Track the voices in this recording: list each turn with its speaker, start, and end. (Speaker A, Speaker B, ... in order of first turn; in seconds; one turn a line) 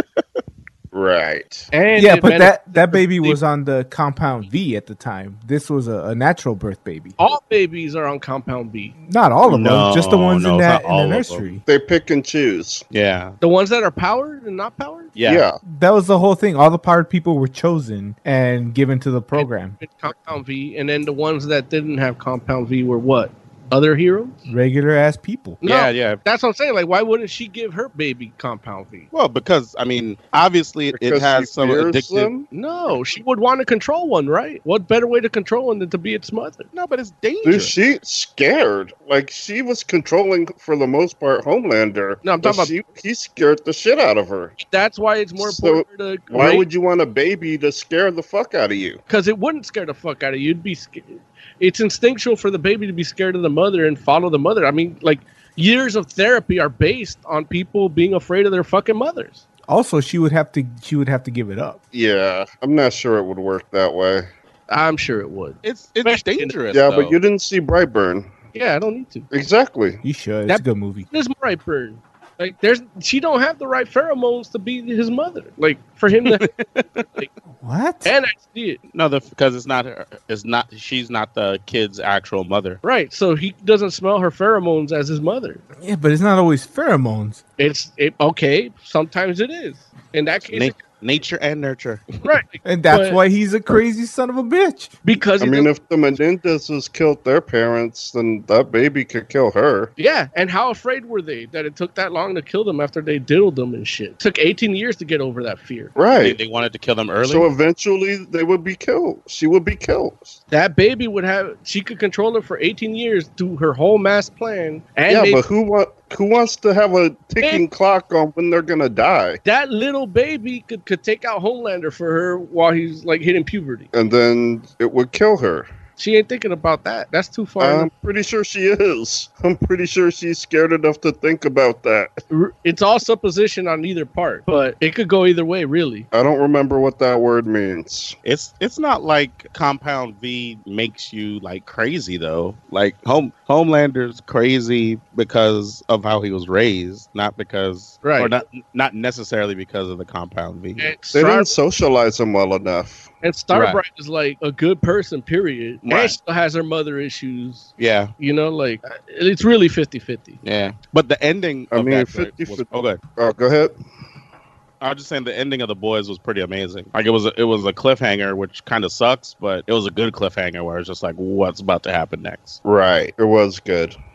Speaker A: 0.9-1.7
Speaker B: 1.7-3.4
Speaker C: 2.0-7.2
Speaker B: 7.2-8.9
Speaker C: 9.0-11.6
Speaker D: 9.4-11.4
Speaker A: 11.7-12.8
Speaker D: 12.9-13.3
Speaker B: 13.4-15.1
Speaker D: 15.2-15.4
Speaker A: 15.2-15.6
Speaker C: 15.7-19.8
Speaker B: 19.3-24.4
Speaker C: 24.5-25.6
Speaker B: 25.6-29.1
Speaker D: 25.6-26.2
Speaker D: 29.1-32.3
Speaker A: 30.9-32.5
Speaker B: 32.5-36.7
Speaker D: 36.7-37.7
Speaker A: 37.4-44.6
Speaker B: 42.2-42.8
Speaker B: 44.6-46.6
Speaker A: 45.4-49.0
Speaker B: 49.1-59.4
Speaker C: 59.7-61.8
Speaker A: 61.9-64.3
Speaker B: 64.7-66.5
Speaker D: 65.6-67.2
Speaker A: 66.7-68.3
Speaker B: 68.5-69.3
Speaker A: 69.3-70.0
Speaker C: 70.0-71.1
Speaker B: 70.5-76.5
Speaker D: 76.3-77.0
Speaker C: 77.5-78.1
Speaker B: 78.0-78.8
Speaker D: 78.9-82.8
Speaker B: 82.8-85.6
Speaker C: 85.8-87.4
Speaker B: 87.6-90.8
Speaker D: 90.5-92.3
Speaker B: 92.2-93.2
Speaker C: 92.6-94.9
Speaker B: 95.0-95.7
Speaker A: 95.4-99.9
Speaker B: 100.0-105.9
Speaker A: 106.0-106.4
Speaker D: 106.2-107.5
Speaker A: 107.2-110.4
Speaker B: 110.5-115.4
Speaker A: 115.1-119.4
Speaker B: 119.4-123.9
Speaker A: 123.9-125.7
Speaker B: 126.0-127.9
Speaker A: 127.6-132.1
Speaker B: 132.3-136.1
Speaker A: 136.1-138.2
Speaker D: 138.2-150.9
Speaker B: 148.0-148.3
Speaker B: 150.8-151.5
Speaker A: 151.1-153.1
Speaker B: 153.2-160.4
Speaker D: 153.5-153.8
Speaker D: 155.8-156.2
Speaker D: 157.8-158.1
Speaker D: 160.4-163.0
Speaker A: 161.7-163.7
Speaker D: 164.8-172.6
Speaker A: 172.6-173.9